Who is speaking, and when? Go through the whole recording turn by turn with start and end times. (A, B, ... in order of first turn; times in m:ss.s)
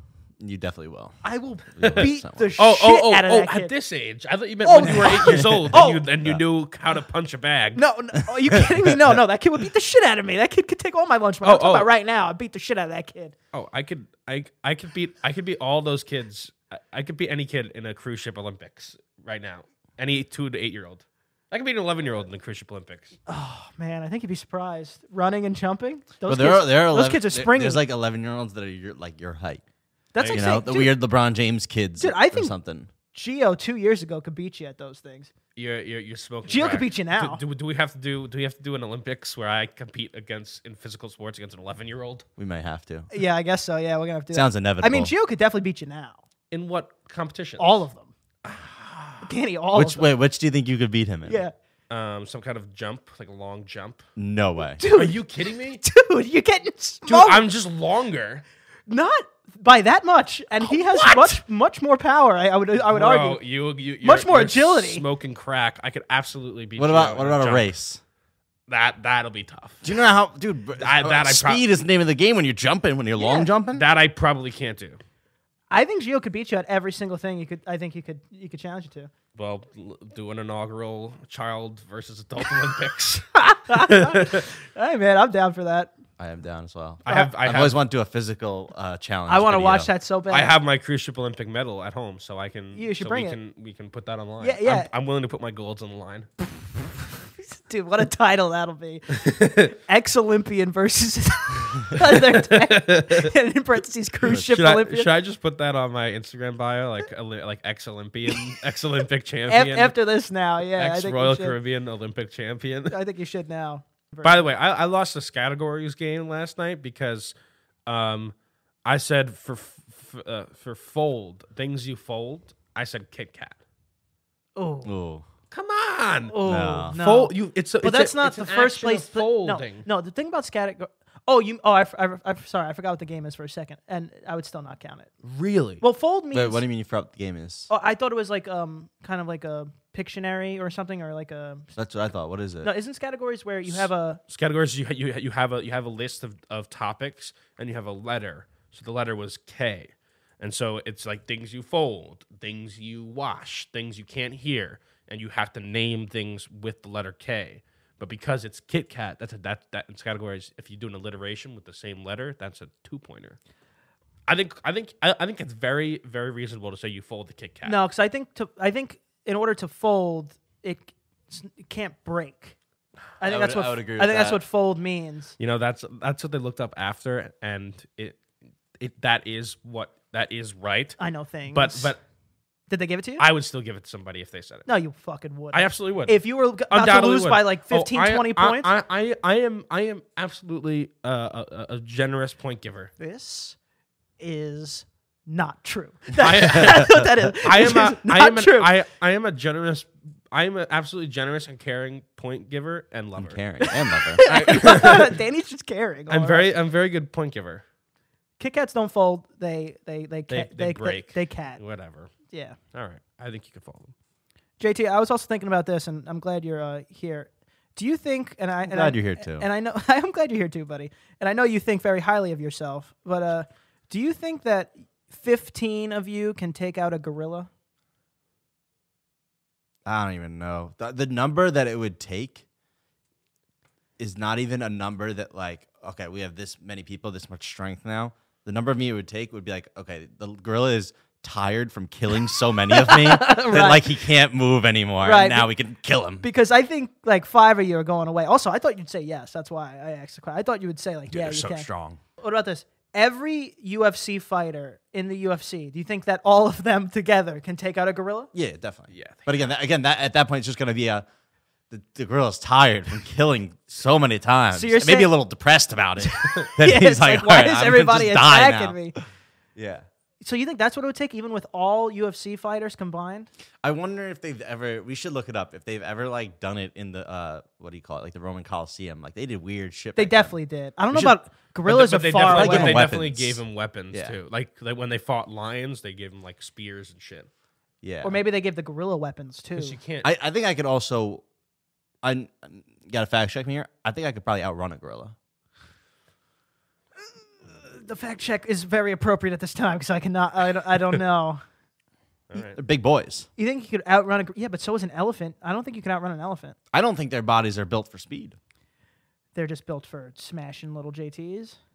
0:00.4-0:01.2 A
0:01.2-0:03.7 B
0:01.7-0:02.5 A
0:02.6-0:07.8 C
0:04.6-0:06.1 B
0:04.9-0:06.4 A
0:07.7-0:13.3 B
0:11.4-0:11.9 C
0:13.5-0:23.1 C
0:23.3-0:27.8 B
0:26.3-0:29.6 A
0:30.1-0:30.9 B
0:30.2-0:30.4 C
0:30.3-0:32.9 A
0:32.0-0:32.5 B
0:33.1-0:35.3 B
0:35.6-0:42.2 C
0:36.5-0:37.4 B
0:42.4-0:43.1 A
0:43.1-0:46.2 B
0:44.3-0:45.1 A
0:46.5-0:47.8 C
0:47.6-0:48.1 B
0:48.4-0:49.3 C
0:49.2-0:50.1 B
0:49.7-0:51.4 A
0:51.2-0:51.5 B
0:51.9-0:54.0 C
0:54.2-0:54.8 A
0:54.8-0:57.5 B
0:54.9-0:55.8 C
0:57.0-0:58.4 C
0:58.9-1:03.4 B
1:00.6-1:01.4 C
1:02.9-1:07.7 C
1:04.0-1:05.0 B
1:06.8-1:08.0 A
1:08.7-1:09.9 C
1:09.8-1:13.8 A
1:10.8-1:11.6 C
1:13.2-1:13.5 B
1:13.7-1:15.0 C
1:15.7-1:19.1 B
1:19.3-1:24.5 C
1:23.5-1:25.9 B
1:26.2-1:29.9 A
1:27.0-1:27.8 C
1:27.0-1:27.3 B
1:29.3-1:30.6 B
1:30.3-1:36.3 C
1:32.7-1:33.4 B
1:34.4-1:34.9 B
1:37.4-1:45.1 B
1:39.2-1:39.7 C
1:42.0-1:43.3 C
1:44.3-1:50.0 C
1:49.5-1:51.6 B
1:50.8-1:53.0 C
1:52.9-1:54.5 B
1:54.2-1:57.3 C
1:57.8-1:58.3 C
1:58.8-2:03.6 C
2:04.6-2:04.9 B
2:04.8-2:05.2 A
2:05.5-2:09.8 C
2:06.3-2:15.1 B
2:06.4-2:07.0 A
2:15.2-2:15.8 C
2:15.8-2:16.6 B
2:16.3-2:17.7 A
2:17.7-2:21.7 B
2:21.7-2:22.7 A
2:22.6-2:24.2 B
2:23.7-2:43.4 C
2:44.3-2:47.8 C
2:47.6-2:52.5 B
2:53.2-2:55.3 B
2:53.2-2:54.4 A
2:55.4-2:58.2 C
2:58.8-3:01.0 C
3:01.0-3:01.9 B
3:01.5-3:02.0 C
3:02.7-3:03.2 B
3:03.2-3:04.7 C
3:04.7-3:08.7 B
3:05.5-3:12.9 C
3:13.0-3:13.6 B
3:14.2-3:18.7 B
3:16.2-3:23.4 C
3:16.7-3:17.0 A
3:23.2-3:24.7 A
3:23.6-3:26.5 B
3:24.2-3:25.2 C
3:26.1-3:27.6 C
3:28.4-3:31.6 B
3:30.3-3:32.1 C
3:32.3-3:32.6 B
3:32.7-3:33.9 C
3:34.6-3:47.5 B
3:38.6-3:39.5 A
3:49.8-3:52.4 A
3:54.0-4:06.2 A
4:02.7-4:04.0 B
4:05.0-4:05.5 B
4:06.2-4:11.7 B
4:11.1-4:12.0 A
4:12.2-4:18.3 B
4:18.3-4:21.0 A
4:18.9-4:19.3 C
4:21.7-4:28.8 A
4:24.5-4:25.1 B
4:26.4-4:29.0 B
4:29.5-4:29.8 A
4:30.2-4:33.3 B
4:33.6-4:40.3 A
4:40.0-4:42.9 B
4:41.6-4:47.3 C
4:42.2-4:44.2 A
4:47.8-4:48.2 A
4:48.0-4:49.8 B
4:49.6-4:50.1 C
4:50.0-4:51.2 A
4:52.0-4:55.1 A
4:57.4-5:01.4 B
5:02.3-5:02.6 C
5:02.3-5:03.3 A
5:03.4-5:06.6 B
5:06.7-5:08.4 A
5:09.3-5:11.6 B